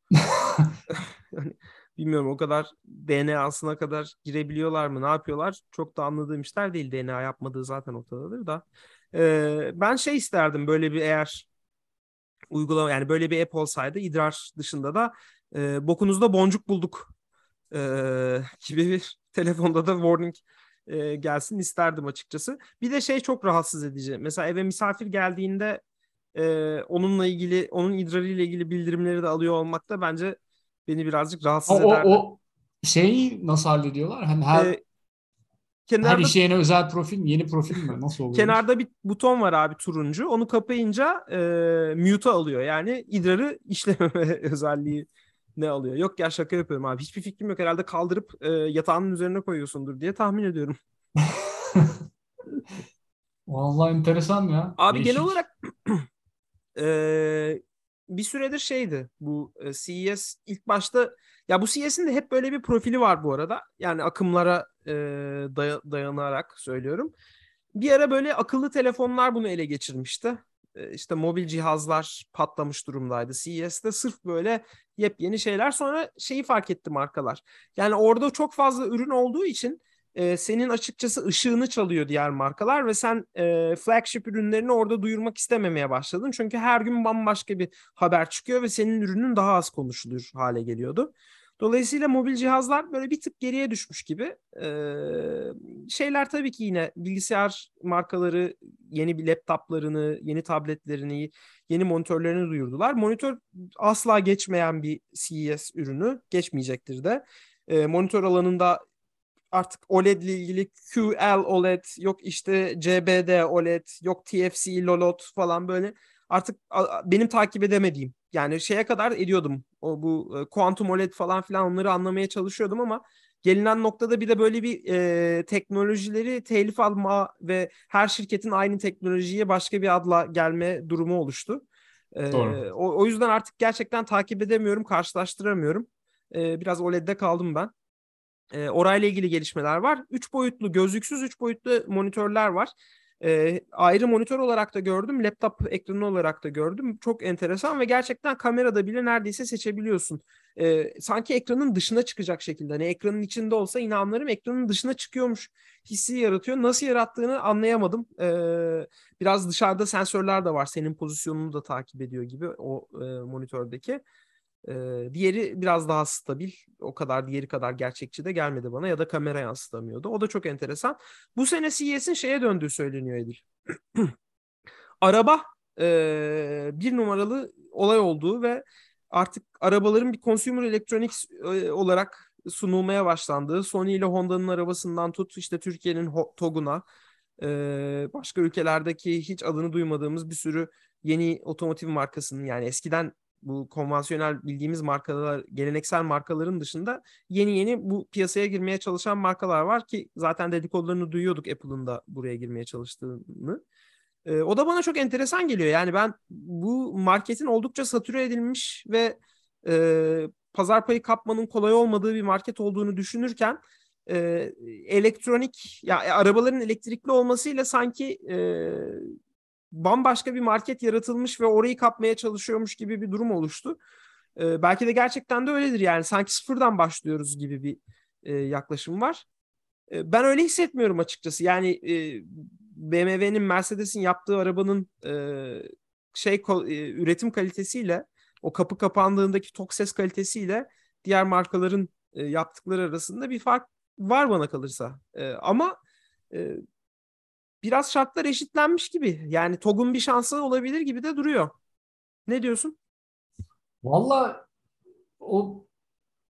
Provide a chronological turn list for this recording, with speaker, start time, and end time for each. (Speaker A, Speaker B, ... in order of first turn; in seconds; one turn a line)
Speaker A: 0.2-0.8
Speaker B: 0.9-11.5
Speaker B: 12.5-17.1
Speaker B: 17.7-25.8
Speaker B: 26.4-32.2
Speaker A: 31.7-34.8
Speaker B: 34.5-34.8
Speaker B: 35.9-36.4
Speaker A: 36.0-38.6
Speaker B: 38.3-50.8
Speaker A: 51.3-52.0
Speaker A: 53.5-55.4
Speaker B: 54.8-56.1
Speaker B: 56.8-67.1
Speaker B: 67.8-108.8
Speaker B: 109.5-131.6
Speaker B: 132.2-137.7
Speaker A: 132.3-132.6
Speaker B: 138.5-164.0
Speaker B: 164.7-174.1
Speaker B: 175.0-186.8
Speaker B: 187.4-203.6
Speaker B: 204.2-219.1
Speaker B: 219.7-223.8
Speaker B: 224.4-229.3
Speaker B: 229.9-245.8
Speaker B: 246.3-246.6
Speaker B: 247.6-251.5
Speaker B: 252.3-252.8
Speaker A: 253.8-254.4
Speaker A: 255.2-255.7